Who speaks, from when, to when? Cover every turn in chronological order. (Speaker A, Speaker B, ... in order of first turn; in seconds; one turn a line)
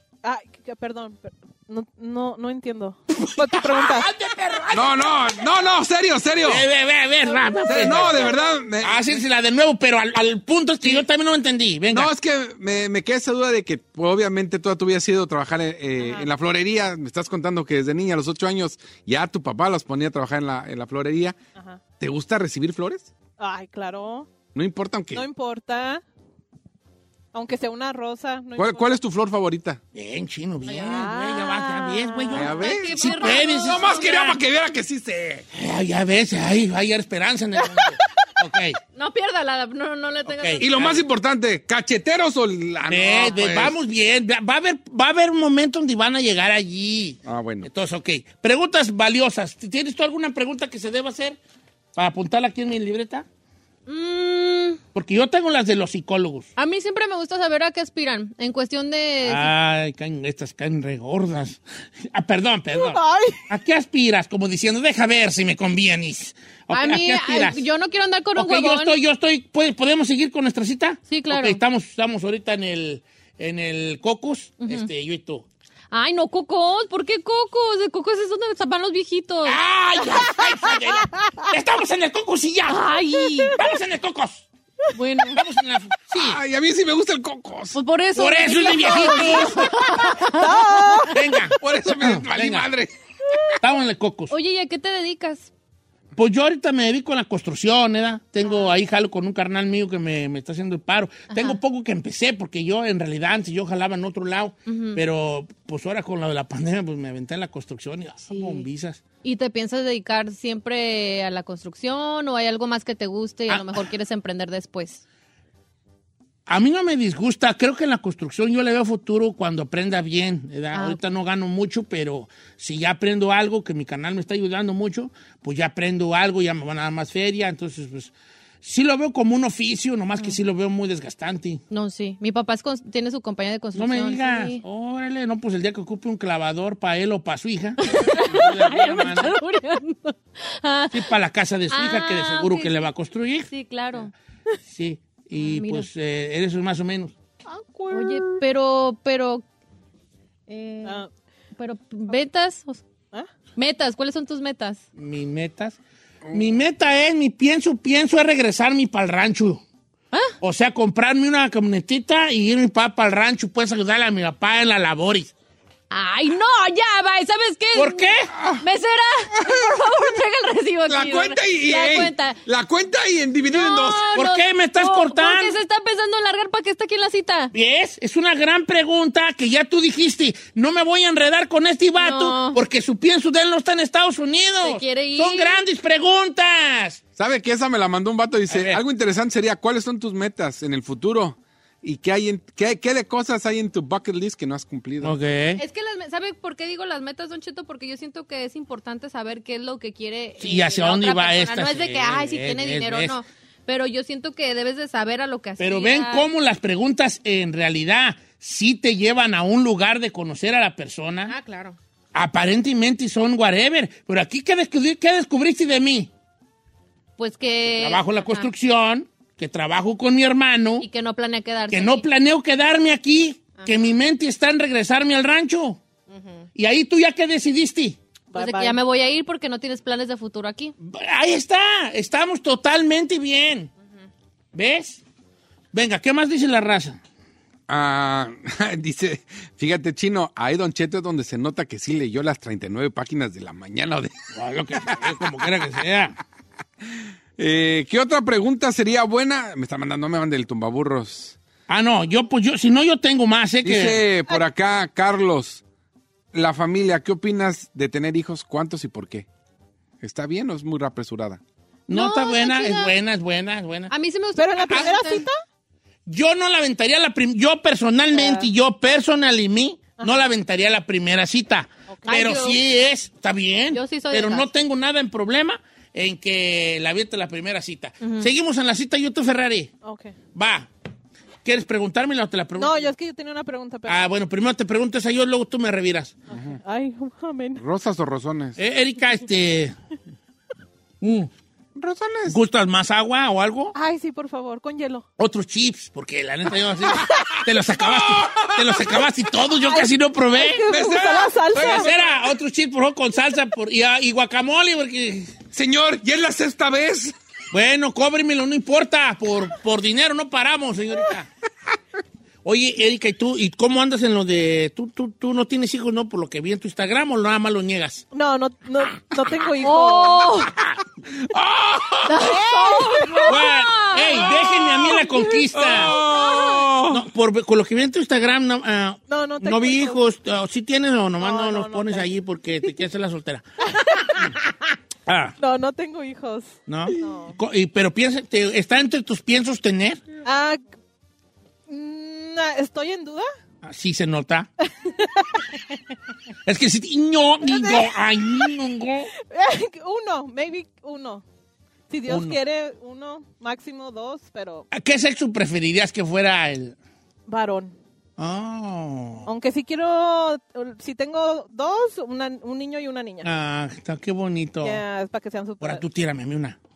Speaker A: 0.2-4.1
Speaker B: 3.2-5.2
Speaker C: 4.7-6.7
Speaker B: 6.4-8.3
Speaker A: 7.3-8.6
Speaker C: 7.7-9.2
Speaker B: 8.8-12.1
Speaker C: 11.9-21.4
Speaker A: 16.0-16.3
Speaker A: 21.5-21.8
Speaker C: 22.0-23.1
Speaker A: 23.4-24.3
Speaker C: 24.5-25.2
Speaker A: 25.1-26.0
Speaker A: 27.3-28.9
Speaker C: 28.6-29.8
Speaker B: 29.9-33.8
Speaker D: 30.7-31.0
Speaker A: 30.8-32.7
Speaker D: 32.3-34.4
Speaker C: 32.3-35.5
Speaker B: 35.5-38.8
Speaker D: 38.9-40.7
Speaker B: 40.3-41.0
Speaker C: 40.6-43.8
Speaker B: 42.9-51.4
Speaker C: 47.2-47.7
Speaker B: 51.9-53.2
Speaker D: 53.9-54.8
Speaker B: 54.9-56.5
Speaker D: 56.6-59.5
Speaker B: 59.2-67.6
Speaker A: 62.7-63.4
Speaker D: 66.7-69.0
Speaker B: 68.3-75.5
Speaker D: 71.1-71.6
Speaker D: 74.6-74.9
Speaker D: 75.9-79.6
Speaker B: 79.4-82.9
Speaker D: 82.7-83.6
Speaker B: 83.5-84.5
Speaker D: 84.9-85.4
Speaker B: 85.3-86.4
Speaker C: 86.1-87.8
Speaker D: 87.7-91.1
Speaker B: 88.1-89.7
Speaker A: 89.0-91.2
Speaker B: 91.1-92.7
Speaker C: 91.6-92.9
Speaker B: 93.6-94.3
Speaker D: 94.3-95.5
Speaker B: 96.2-109.0
Speaker D: 101.3-101.6
Speaker D: 104.7-105.0
Speaker D: 108.3-108.7
Speaker D: 109.2-115.0
Speaker B: 113.5-113.8
Speaker B: 116.5-131.6
Speaker D: 120.7-121.0
Speaker D: 131.7-134.6
Speaker B: 133.7-139.4
Speaker D: 137.8-141.1
Speaker B: 140.9-143.5
Speaker D: 141.7-142.9
Speaker D: 143.5-144.1
Speaker B: 144.7-147.1
Speaker D: 145.3-145.9
Speaker A: 147.4-148.4
Speaker D: 147.9-149.4
Speaker D: 150.5-151.0
Speaker A: 150.8-151.1
Speaker D: 151.6-152.8
Speaker D: 153.6-154.8
Speaker B: 154.9-155.8
Speaker C: 156.2-156.6
Speaker B: 156.3-159.6
Speaker B: 160.4-165.3
Speaker D: 165.9-172.4
Speaker B: 167.7-168.3
Speaker C: 168.3-168.6
Speaker C: 169.4-169.7
Speaker C: 170.9-174.1
Speaker D: 173.5-177.5
Speaker B: 174.1-175.6
Speaker B: 177.5-187.0
Speaker D: 182.0-182.6
Speaker D: 184.6-185.6
Speaker C: 187.2-195.2
Speaker B: 188.5-188.8
Speaker B: 195.0-195.6
Speaker D: 195.6-206.3
Speaker B: 200.4-203.2
Speaker B: 205.6-211.3
Speaker D: 211.3-211.8
Speaker B: 212.1-216.1
Speaker D: 217.2-218.5
Speaker B: 217.7-220.9
Speaker D: 220.8-222.0
Speaker B: 221.7-225.8
Speaker D: 223.6-223.9
Speaker D: 226.1-226.4
Speaker B: 226.6-228.0
Speaker A: 228.3-228.8
Speaker D: 228.3-230.7
Speaker B: 230.8-233.7
Speaker B: 234.5-235.0
Speaker B: 235.7-237.0
Speaker C: 237.7-244.1
Speaker B: 244.3-246.2
Speaker C: 247.4-251.4
Speaker B: 251.7-254.0
Speaker C: 253.6-255.6
Speaker C: 256.3-259.3
Speaker C: 260.0-261.4
Speaker B: 261.9-263.9
Speaker D: 261.9-262.9
Speaker D: 263.9-265.2
Speaker A: 264.4-265.4
Speaker B: 266.1-279.7
Speaker A: 268.1-268.5
Speaker A: 271.9-272.2
Speaker D: 272.1-272.6
Speaker D: 273.7-274.5
Speaker D: 278.0-278.3
Speaker A: 279.8-280.1
Speaker B: 280.3-280.7
Speaker B: 281.4-282.9
Speaker A: 282.6-284.1
Speaker B: 283.9-286.2
Speaker A: 286.3-287.6
Speaker C: 286.3-286.6
Speaker C: 287.6-288.6
Speaker B: 288.6-289.7
Speaker B: 291.0-291.3
Speaker C: 291.8-292.4
Speaker B: 292.3-293.7
Speaker A: 293.7-295.1
Speaker B: 295.2-300.7
Speaker C: 297.0-299.1
Speaker A: 299.6-302.1
Speaker C: 300.7-301.9
Speaker B: 301.5-305.3
Speaker C: 305.5-307.1
Speaker B: 307.5-311.3
Speaker B: 312.4-318.0
Speaker A: 318.1-320.4
Speaker D: 319.6-320.5
Speaker C: 321.1-322.2
Speaker D: 322.1-324.4
Speaker A: 322.1-323.3
Speaker B: 323.2-325.9
Speaker A: 324.9-326.4
Speaker C: 325.5-327.0
Speaker D: 326.2-326.6
Speaker B: 326.9-333.4
Speaker A: 329.1-330.0
Speaker A: 331.2-332.1
Speaker A: 333.6-334.4
Speaker B: 335.1-335.4
Speaker A: 335.4-337.4
Speaker B: 336.7-340.0
Speaker A: 340.2-340.6
Speaker A: 341.7-343.3
Speaker B: 343.6-344.5
Speaker A: 344.6-345.5
Speaker B: 346.4-349.1
Speaker A: 347.4-348.5
Speaker A: 349.3-351.2
Speaker A: 351.9-354.7
Speaker B: 352.1-352.4
Speaker B: 354.7-356.8
Speaker A: 357.3-357.8
Speaker B: 358.2-359.3
Speaker A: 359.2-363.3
Speaker B: 363.2-364.8
Speaker A: 364.6-365.8
Speaker B: 365.6-366.6